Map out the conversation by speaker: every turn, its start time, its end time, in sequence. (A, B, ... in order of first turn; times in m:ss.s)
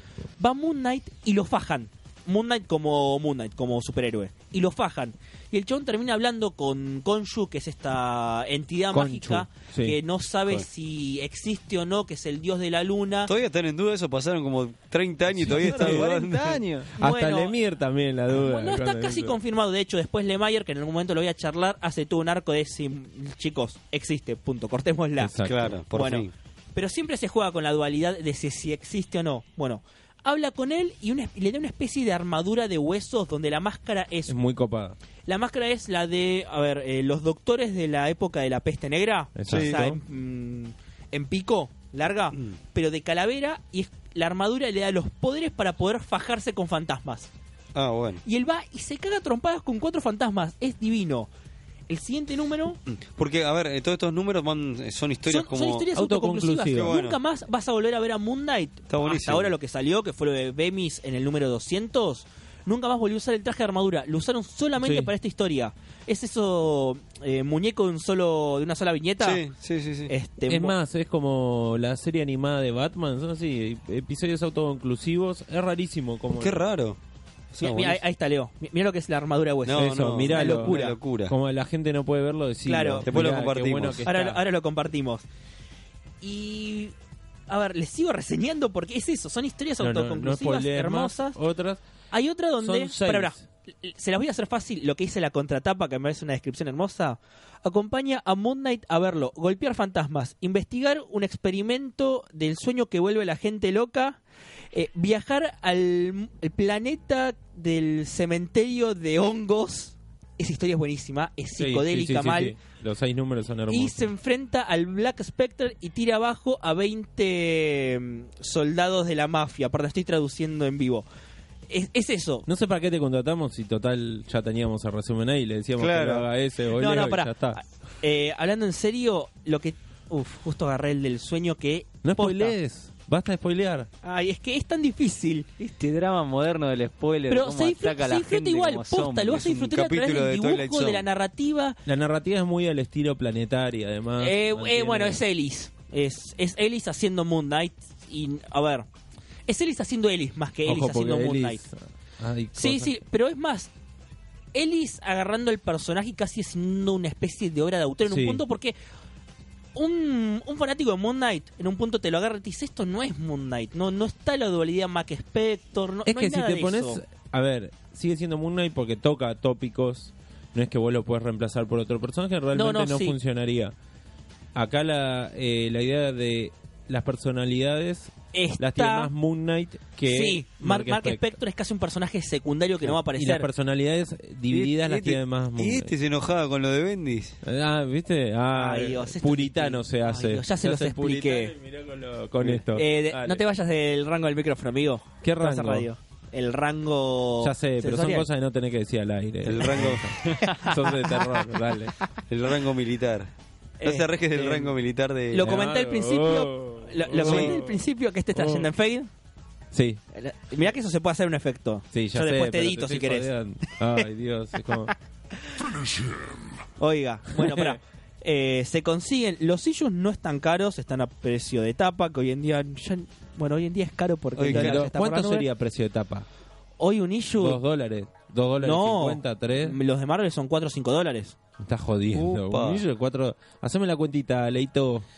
0:00.4-0:13.3 A
0:08.9-0:10.0 B
0:13.3-0:16.6 C
0:15.3-0:16.1 B
0:15.5-0:16.9 D
0:17.0-0:19.4 B
0:17.0-0:17.5 A
0:18.3-0:25.4 A
0:25.2-0:25.8 B
0:25.4-0:26.3 C
0:25.9-0:34.3 A
0:34.3-0:35.0 B
0:35.3-0:47.3 A
0:39.4-0:40.0 B
0:39.5-0:39.8 C
0:47.7-0:48.2 C
0:48.2-0:51.3 A
0:51.9-0:52.8 A
0:52.9-0:55.8 C
0:55.3-1:09.4 A
0:55.9-0:56.9 B
0:56.7-0:57.2 C
0:58.9-0:59.5 C
1:04.8-1:05.1 B
1:09.2-1:10.1 C
1:10.1-1:10.7 A
1:10.5-1:16.7 B
1:16.4-1:17.0 C
1:17.5-1:18.0 C
1:17.6-1:21.0 A
1:19.6-1:21.3 C
1:19.7-1:24.4 B
1:22.6-1:23.1 A
1:23.0-1:24.0 C
1:24.0-1:25.2 A
1:26.2-1:26.9 A
1:27.5-1:31.4 A
1:29.8-1:31.8 B
1:32.1-1:44.2 A
1:32.6-1:33.4 B
1:44.7-1:52.6 A
1:51.6-1:54.1 B
1:53.7-2:01.0 A
2:01.7-2:02.5 A
2:02.5-2:07.6 B
2:05.8-2:06.2 C
2:06.7-2:12.5 A
2:12.0-2:13.9 B
2:14.0-2:15.5 A
2:15.6-2:19.4 D
2:17.3-2:21.8 A
2:19.4-2:21.0 C
2:21.8-2:25.2 B
2:24.2-2:28.9 A
2:29.5-2:31.6 A
2:30.6-2:32.9 B
2:32.5-2:33.7 A
2:34.5-2:38.7 A
2:38.0-2:38.4 B
2:39.7-2:47.0 A
2:46.0-2:53.7 B
2:52.5-2:53.2 A
2:54.5-3:01.3 B
2:58.3-2:59.1 A
3:00.0-3:03.5 A
3:03.1-3:05.9 B
3:04.5-3:07.4 C
3:07.4-3:13.4 B
3:08.5-3:11.5 A
3:12.7-3:18.3 A
3:15.2-3:15.9 B
3:17.4-3:22.0 B
3:19.4-3:20.4 C
3:20.5-3:21.2 A
3:22.3-3:23.3 C
3:23.8-3:24.8 A
3:23.8-3:25.5 C
3:25.3-3:29.1 A
3:25.4-3:27.8 B
3:27.2-3:27.6 C
3:28.3-3:28.7 B
3:29.7-3:30.0 B
3:30.1-3:33.3 A
3:31.9-3:34.9 B
3:36.8-3:45.5 A
3:37.4-3:37.8 B
3:44.4-3:44.8 C
3:44.5-3:46.3 B
3:46.8-3:47.6 A
3:47.4-3:49.8 B
3:48.6-3:51.4 A
3:51.6-3:55.0 B
3:52.1-3:52.8 C